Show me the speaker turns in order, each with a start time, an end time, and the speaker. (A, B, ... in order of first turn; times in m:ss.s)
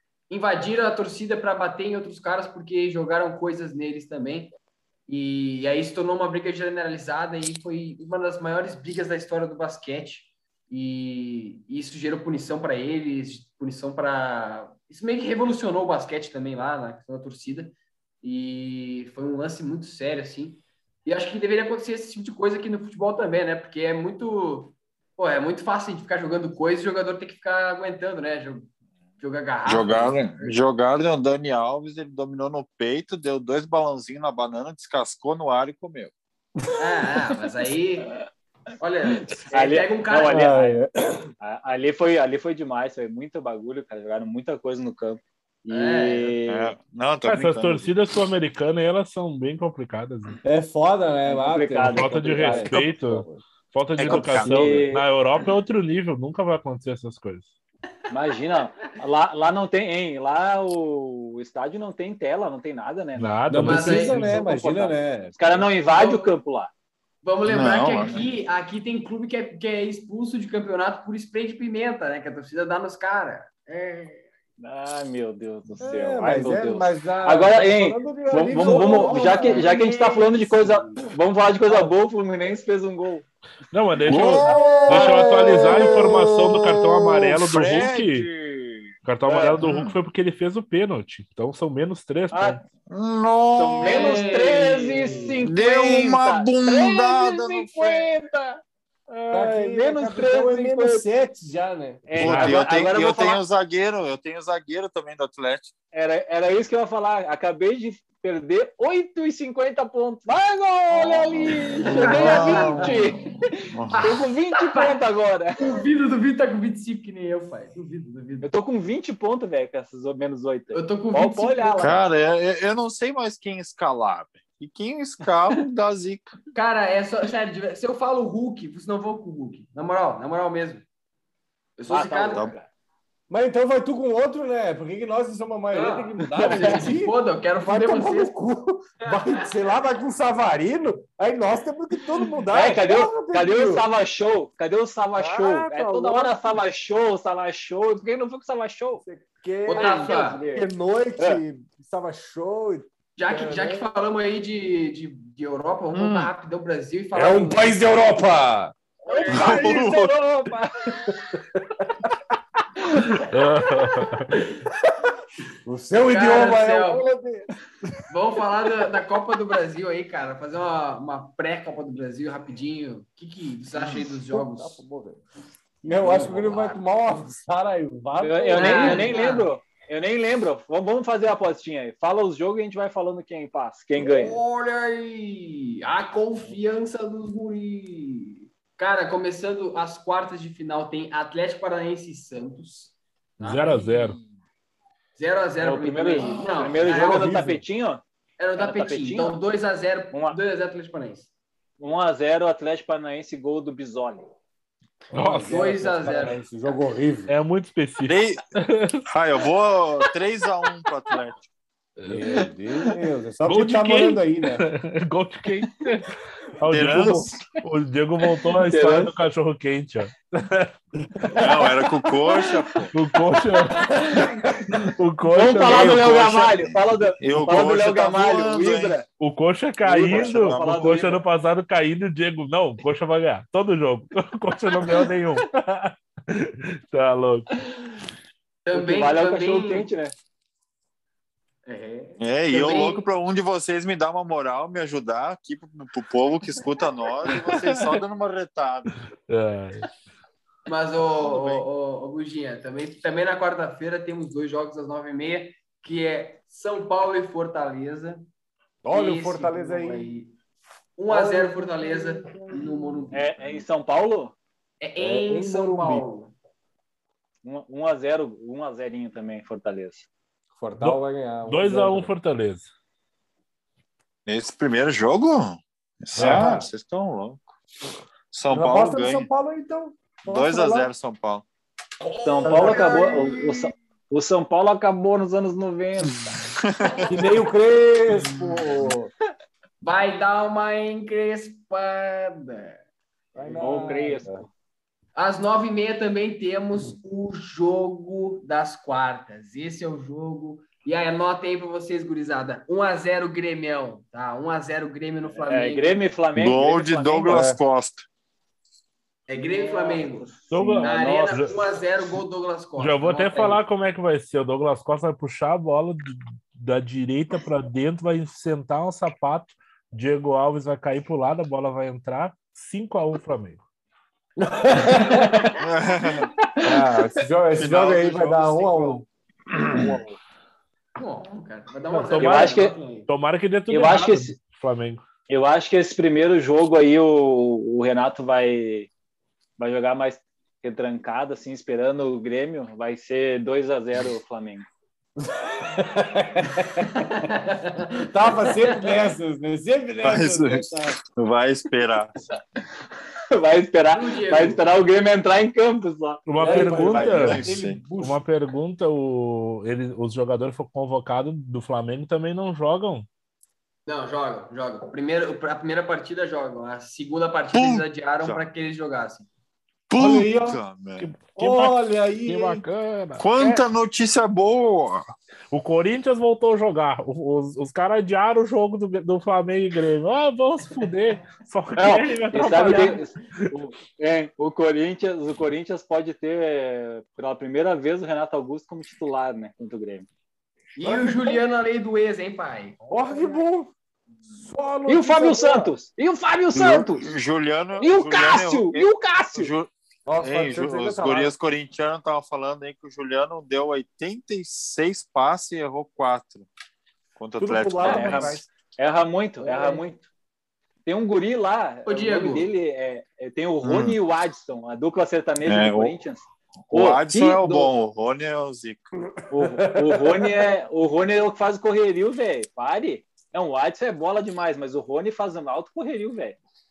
0:00.3-0:04.5 A
0:05.1-0:28.7 A
0:29.2-0:30.6 A
0:29.6-0:36.1 B
0:36.8-0:38.1 A
0:38.8-0:40.6 A
0:39.5-0:40.8 C
0:40.2-0:41.3 D
0:41.4-0:46.7 C
0:45.7-0:46.4 A
0:46.5-0:47.9 B
0:47.2-0:50.4 E
0:50.4-0:53.4 D
0:51.2-0:52.7 C
0:51.8-0:57.5 E
0:54.0-0:54.8 B
0:54.0-0:55.0 C
0:58.1-1:06.7 C
1:03.2-1:04.5 E
1:03.5-1:05.7 D
1:03.6-1:04.2 A
1:05.8-1:06.3 A
1:07.2-1:14.2 A
1:07.5-1:08.3 B
1:14.6-1:23.2 C
1:15.8-1:19.8 D
1:18.5-1:21.1 A
1:23.7-1:28.3 E
1:24.0-1:28.9 B
1:24.4-1:25.9 D
1:24.9-1:25.2 C
1:29.0-1:32.6 E
1:29.2-1:29.6 C
1:29.6-1:29.9 B
1:32.3-1:32.6 C
1:32.9-1:34.2 B
1:33.6-1:41.0 C
1:33.8-1:35.4 A
1:35.4-1:38.1 B
1:39.3-1:42.1 D
1:42.1-1:43.4 C
1:42.2-1:45.7 B
1:42.2-1:42.5 E
1:45.9-1:55.6 C
1:50.9-1:53.2 B
1:51.8-1:53.1 A
1:53.7-1:54.1 B
1:54.0-1:55.0 A
1:55.6-1:58.5 A
1:58.4-2:02.0 C
2:00.7-2:02.0 A
2:01.8-2:06.3 B
2:06.5-2:10.8 A
2:11.8-2:12.5 A
2:11.9-2:12.7 C
2:13.3-2:23.8 D
2:15.7-2:18.3 A
2:16.3-2:16.7 C
2:22.5-2:29.0 C
2:25.1-2:26.4 D
2:29.0-2:33.8 D
2:29.7-2:30.4 A
2:29.7-2:30.7 C
2:33.2-2:37.8 A
2:35.9-2:36.3 B
2:37.1-2:38.7 D
2:39.0-2:39.8 A
2:39.1-2:41.2 C
2:39.3-2:40.1 B
2:41.0-2:41.9 D
2:42.9-2:43.2 C
2:43.3-2:44.3 E
2:45.6-2:47.5 D
2:46.1-2:47.1 A
2:48.1-2:54.8 A
2:53.7-2:55.2 D
2:55.8-2:59.2 D
2:55.9-2:56.8 A
2:58.2-3:04.4 C
2:58.6-2:59.5 A
3:04.0-3:14.3 A
3:13.4-3:14.2 E
3:15.2-3:17.4 A
3:15.6-3:18.0 C
3:16.8-3:17.6 D
3:18.4-3:21.3 A
3:18.6-3:19.4 C
3:20.1-3:20.4 C
3:21.8-3:24.3 C
3:25.1-3:27.3 D
3:25.1-3:25.7 E
3:25.5-3:26.4 A
3:27.3-3:29.0 E
3:28.0-3:28.4 B
3:29.1-3:31.4 B
3:32.0-3:32.2 E
3:32.1-3:34.6 D
3:33.4-3:40.7 E
3:36.7-3:37.5 B
3:38.5-3:39.1 C
3:41.3-3:42.9 B
3:42.3-3:42.6 C
3:42.9-3:44.2 E
3:43.8-3:44.4 C
3:43.9-3:44.7 D
3:44.7-3:46.0 E
3:45.3-3:49.0 C
3:45.6-3:49.0 B
3:49.2-3:57.6 E
3:49.8-3:51.2 C
3:49.9-3:51.1 B
3:54.7-3:55.1 C
3:58.6-3:59.9 A
3:58.7-4:00.1 C
4:01.6-4:03.0 A
4:02.2-4:08.9 B
4:09.3-4:09.9 E
4:10.7-4:18.2 A
4:11.0-4:11.6 B
4:18.8-4:20.1 D
4:18.9-4:20.3 A
4:21.0-4:23.5 A
4:21.1-4:23.3 D
4:23.1-4:24.4 C
4:24.8-4:26.3 A
4:25.0-4:26.0 D
4:27.4-4:30.1 C
4:30.6-4:32.1 D
4:30.8-4:32.7 E
4:34.3-4:37.5 B
4:36.2-4:36.6 E
4:36.2-4:36.7 D
4:38.3-4:39.3 B
4:38.5-4:40.9 D
4:40.3-4:41.4 B
4:42.0-4:43.7 A
4:42.2-4:46.2 C
4:42.4-4:43.4 D
4:46.2-4:47.2 B
4:47.0-4:49.1 D
4:48.3-4:48.6 A
4:49.8-4:52.8 A
4:53.3-4:54.4 D
4:53.4-4:53.9 A
4:53.6-4:54.5 C
4:55.1-5:06.1 A
5:05.3-5:07.5 C
5:06.3-5:08.0 B
5:07.3-5:07.6 D
5:09.3-5:10.3 A
5:09.5-5:11.6 C
5:10.5-5:11.6 E
5:10.8-5:13.6 A
5:12.8-5:23.6 E
5:24.5-5:25.6 A
5:24.8-5:25.2 D
5:25.6-5:26.3 B
5:26.6-5:29.0 D
5:27.6-5:29.0 B
5:29.6-5:30.0 B
5:31.0-5:33.1 A
5:31.9-5:35.0 E
5:32.2-5:32.7 C
5:33.7-5:34.3 C
5:35.3-5:38.9 C
5:39.6-5:44.7 C
5:45.2-5:47.0 D
5:46.9-5:48.9 A
5:48.1-5:51.0 D
5:50.0-5:52.2 B
5:53.3-5:56.6 C
5:53.9-5:54.6 A
5:56.2-6:03.1 E
5:56.4-5:58.2 D
5:56.4-5:57.8 B
6:03.8-6:09.3 A
6:07.5-6:08.4 B
6:09.9-6:11.1 B
6:10.0-6:10.6 D
6:11.0-6:13.3 E
6:11.4-6:12.6 D
6:13.2-6:15.1 B
6:15.5-6:23.5 E
6:21.8-6:30.1 C
6:22.6-6:23.0 A
6:30.8-6:33.4 A
6:30.8-6:31.4 D
6:32.9-6:33.7 D
6:34.4-6:35.7 D
6:34.9-6:37.0 C
6:36.5-6:39.7 B
6:37.8-6:39.5 C
6:40.1-6:41.3 D
6:40.2-6:46.5 B
6:47.2-6:48.5 B
6:47.4-6:48.4 D
6:47.8-6:50.1 C
6:49.4-6:49.8 A
6:50.8-6:57.7 C
6:51.8-6:52.5 A
6:53.6-6:54.0 B
6:55.4-6:56.0 B
6:56.7-6:58.9 B
6:59.3-7:00.5 D
6:59.3-7:06.4 C